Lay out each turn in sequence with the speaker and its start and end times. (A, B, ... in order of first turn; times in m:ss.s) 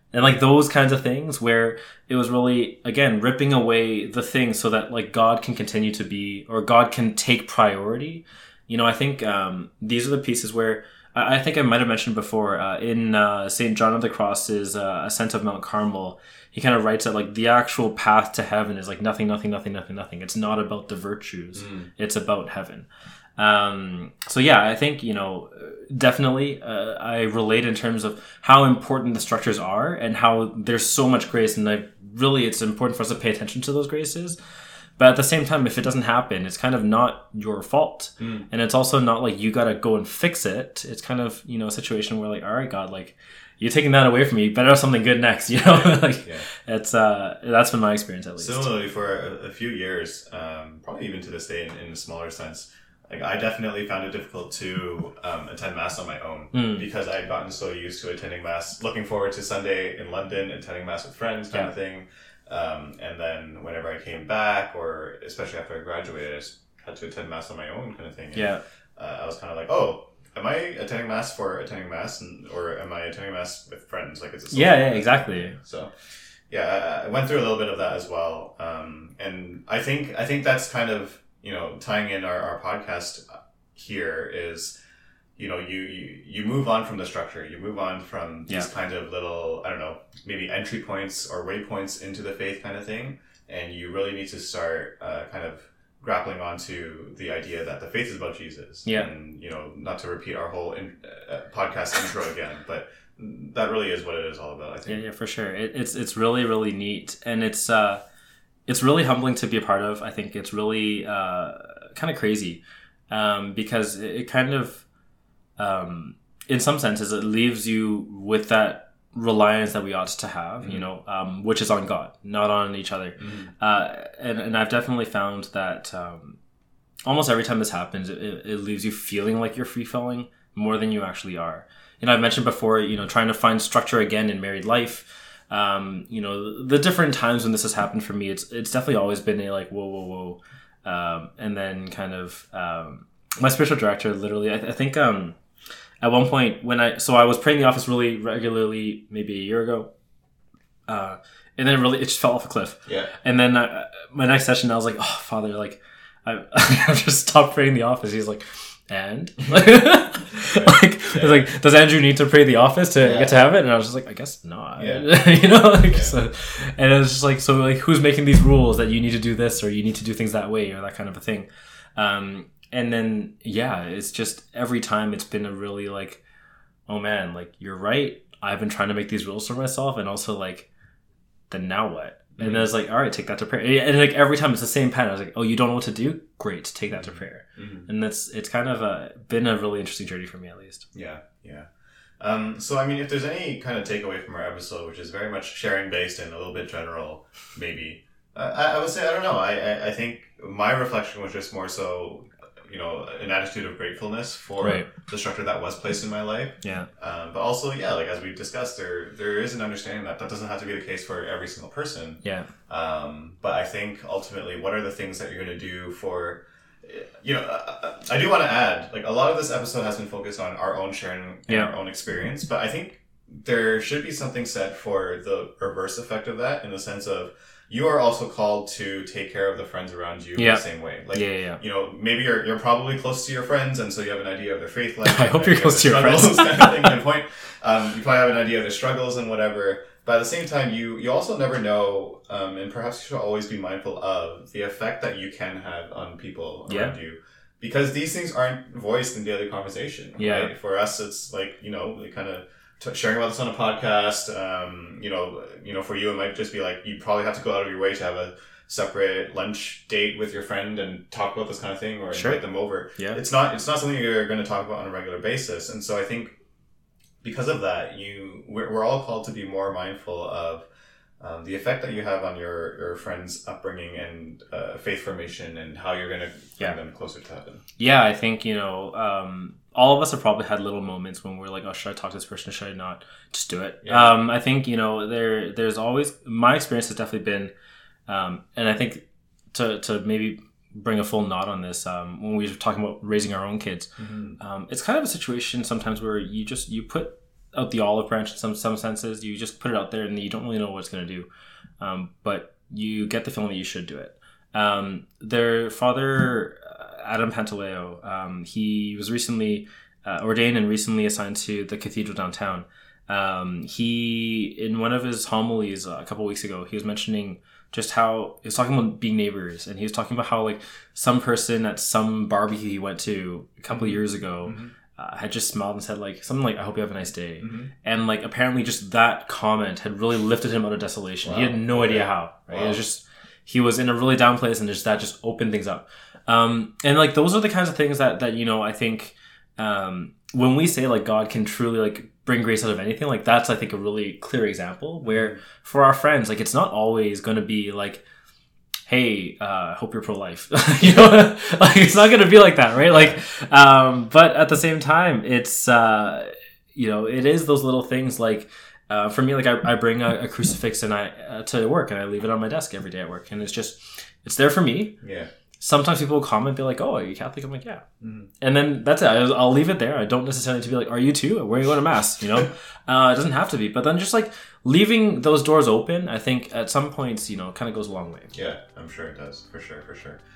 0:00.1-0:22.9 A
0:21.6-0:21.9 B
0:23.4-0:34.4 A
0:35.0-0:48.7 A
0:38.2-0:38.5 B
0:45.6-0:46.4 B
0:48.4-1:15.9 B
0:56.5-0:56.8 A
1:08.3-1:08.6 A
1:14.5-1:15.6 A
1:16.5-1:24.7 B
1:25.4-1:45.0 B
1:44.9-1:48.0 A
1:48.7-1:54.8 A
1:55.6-2:06.4 A
2:03.2-2:03.5 B
2:07.0-2:25.4 A
2:26.0-2:29.9 A
2:30.9-2:56.2 A
2:32.9-2:33.1 B
2:40.4-2:41.4 B
2:43.0-2:43.4 B
2:44.8-2:46.2 B
2:56.9-3:00.7 A
3:01.5-3:10.9 A
3:02.4-3:02.7 B
3:07.1-3:07.9 B
3:10.9-3:11.7 B
3:12.2-4:26.4 B
3:24.6-3:24.9 A
3:26.6-3:26.9 A
3:32.2-3:32.5 A
3:41.5-3:41.7 A
3:50.4-3:51.6 A
3:55.0-3:57.0 A
4:06.7-4:06.9 A
4:10.2-4:10.5 A
4:22.1-4:22.4 A
4:27.2-4:30.7 B
4:31.2-4:37.6 B
4:37.8-4:47.5 A
4:43.8-4:44.1 B
4:48.1-5:01.3 A
4:54.0-4:54.4 B
5:01.8-5:48.0 A
5:23.7-5:24.7 B
5:27.4-5:27.7 B
5:31.2-5:32.8 B
5:45.1-5:45.4 B
5:48.9-6:05.0 A
6:05.0-6:05.3 B
6:05.6-6:07.8 A
6:08.0-6:08.3 B
6:08.4-6:18.3 A
6:18.3-6:20.2 B